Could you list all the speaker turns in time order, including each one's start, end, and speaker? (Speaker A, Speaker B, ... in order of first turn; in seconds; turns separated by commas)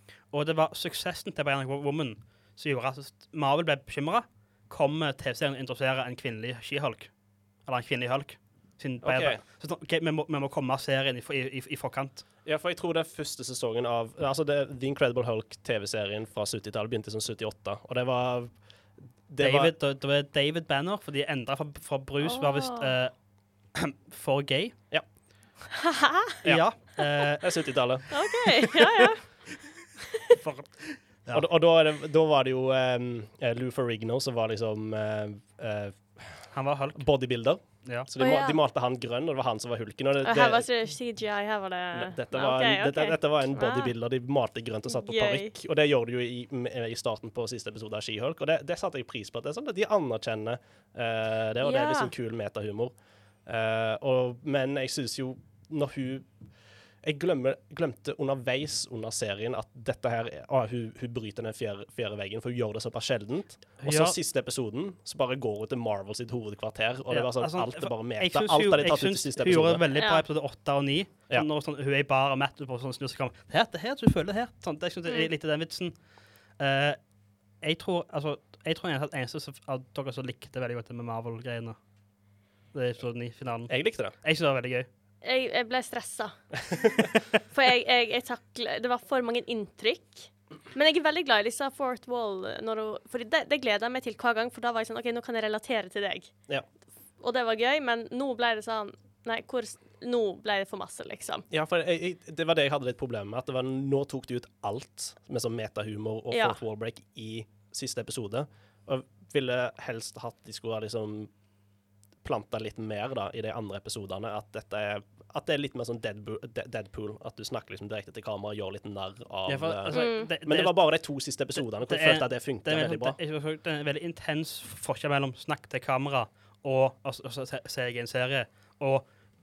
Speaker A: 0.3-12.2, Speaker B: 9.0-9.4, Speaker B: 12.4-18.6, Speaker B: 19.3-19.7, Speaker A: 19.4-24.8, Speaker C: 22.2-22.9, Speaker C: 25.8-26.3, Speaker B: 26.4-28.5, Speaker A: 26.4-27.5, Speaker C: 28.1-29.7, Speaker A: 30.3-31.4, Speaker B: 31.3-40.7, Speaker A: 36.5-38.1, Speaker C: 38.2-38.6, Speaker C: 40.2-43.9, Speaker B: 41.9-69.8, Speaker C: 44.9-45.5, Speaker C: 51.6-52.1, Speaker A: 63.8-64.2, Speaker A: 67.1-81.8, Speaker C: 69.9-70.2, Speaker C: 75.0-75.3, Speaker A: 82.7-84.9, Speaker B: 83.7-84.1, Speaker C: 85.2-86.9, Speaker C: 87.4-96.4, Speaker C: 97.2-101.5, Speaker B: 101.5-111.3, Speaker C: 106.3-106.6, Speaker B: 112.2-123.2, Speaker A: 119.5-129.1, Speaker C: 119.9-120.3